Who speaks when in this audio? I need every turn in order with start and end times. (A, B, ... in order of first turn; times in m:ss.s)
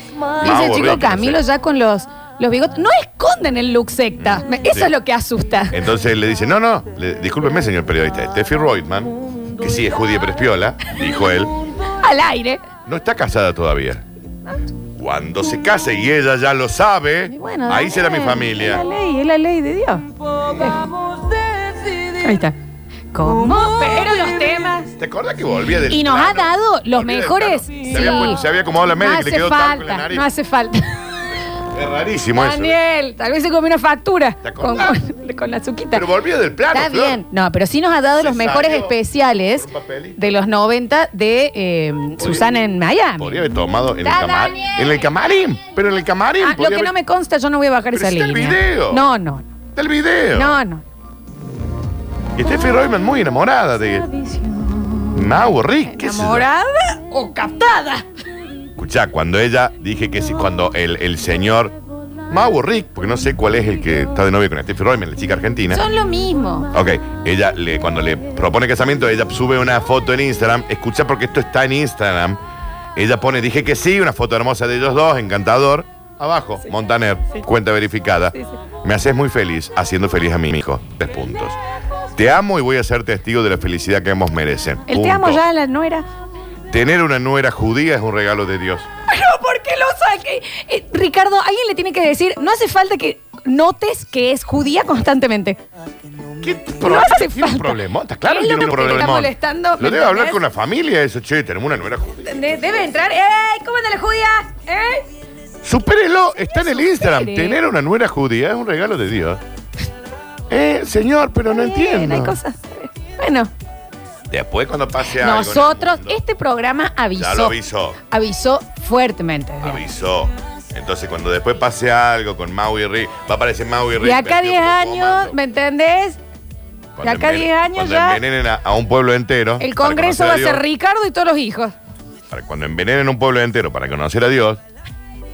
0:00.4-0:05.8 A
0:00.4-0:01.4 B
0:04.3-0:04.9 B
0:05.7-0:11.6 B
0:11.9-0:12.6 A
0:12.8-0:14.0 B
0:14.9-0:18.8 B
0:17.3-0:20.9 A
0:20.4-0:20.8 B
0:22.0-0:22.6 A
0:23.1-0:24.9 A
0:25.0-0:30.3 B
0:25.9-0:28.4 A
0:29.0-0:31.0 A
0:31.7-0:32.8 B
0:32.3-0:36.0 A
0:34.4-0:35.0 B
0:35.9-0:37.2 B
0:36.7-0:43.4 A
0:38.2-0:39.0 B
0:39.5-0:40.2 B
0:42.2-0:42.4 B
0:43.2-0:46.9 B
0:44.0-0:45.1 A
0:46.4-0:49.4 A
0:47.9-0:49.1 B
0:49.7-0:50.6 B
0:50.3-0:50.8 A
0:52.4-0:54.1 B
0:54.1-0:55.2 A
0:55.1-0:56.5 B
0:55.8-0:58.0 A
0:58.8-1:01.7 B
1:02.3-1:05.8 B
1:05.7-1:06.7 A
1:06.7-1:12.4 B
1:13.0-1:21.6 B
1:22.1-1:25.4 B
1:24.9-1:26.0 A
1:26.7-1:28.9 B
1:29.1-1:35.6 A
1:36.4-1:42.9 B
1:36.8-1:40.4 A
1:42.2-1:45.0 A
1:45.6-1:49.4 B
1:46.5-1:47.6 A
1:50.5-1:52.4 B
1:51.5-1:53.5 A
1:54.3-1:56.2 B
1:55.1-1:57.6 A
1:57.2-1:58.0 B
1:58.1-1:59.8 A
1:59.6-2:05.4 B
2:04.0-2:06.2 A
2:07.0-2:10.6 B
2:07.0-2:08.2 A
2:09.6-2:11.7 A
2:12.3-2:14.6 B